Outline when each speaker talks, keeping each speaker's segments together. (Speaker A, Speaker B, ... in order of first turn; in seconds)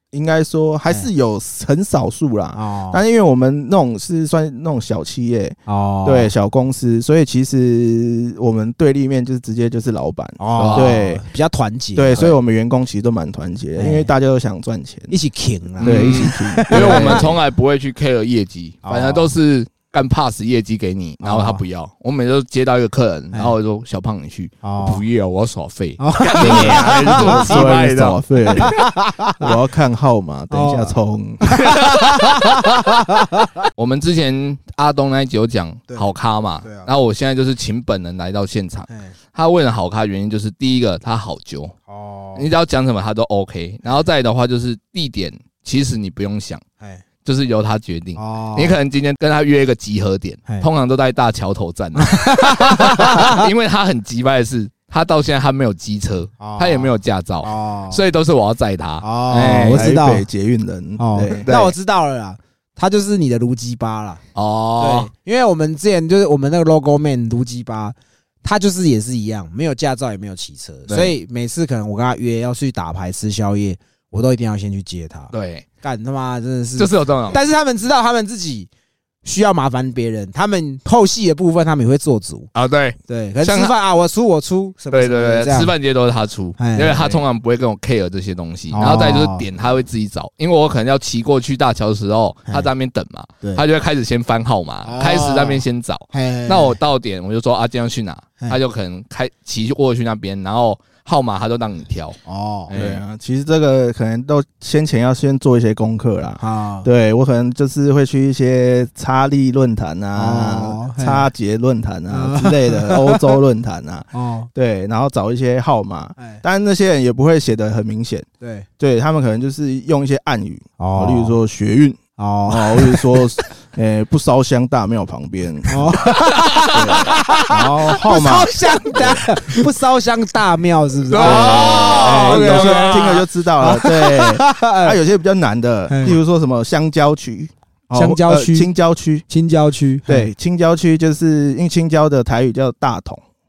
Speaker A: 0.1-11.2, 11.9-15.1, 15.8-17.4, 21.3-21.6, 26.4-28.8, 29.4-31.5, 59.7-61.5, 102.7-118.3, 118.8-125.9, 126.7-129.3, 131.2-139.3, 140.1-143.2
Speaker B: 2.5-3.0, 5.7-6.3, 10.4-12.3, 13.8-14.1, 15.1-17.4, 18.8-19.3, 24.6-25.0, 26.0-27.7, 28.5-29.5, 30.5-33.6, 36.6-36.9, 38.9-39.1, 41.9-42.5, 48.2-48.8, 52.0-53.5, 56.4-58.0, 59.0-60.2, 61.0-64.2, 64.8-78.7, 79.2-82.5, 83.1-85.7, 86.6-87.2, 88.7-89.4, 94.8-96.8, 102.3-102.8, 106.4-106.9, 110.2-111.3, 112.1-113.4, 114.1-114.5, 118.4-118.7, 120.8-121.4, 122.2-123.2, 125.7-135.0, 135.9-136.2, 137.9-138.7, 139.3-140.3
Speaker C: 10.6-10.9, 15.8-28.7, 31.6-32.3, 33.8-41.8, 42.4-46.6, 47.2-59.9, 61.4-61.8, 64.3-65.1, 70.9-71.1, 75.3-75.7, 76.8-77.4, 82.5-83.7, 84.9-102.2, 102.7-103.0, 126.5-126.8, 131.1-133.2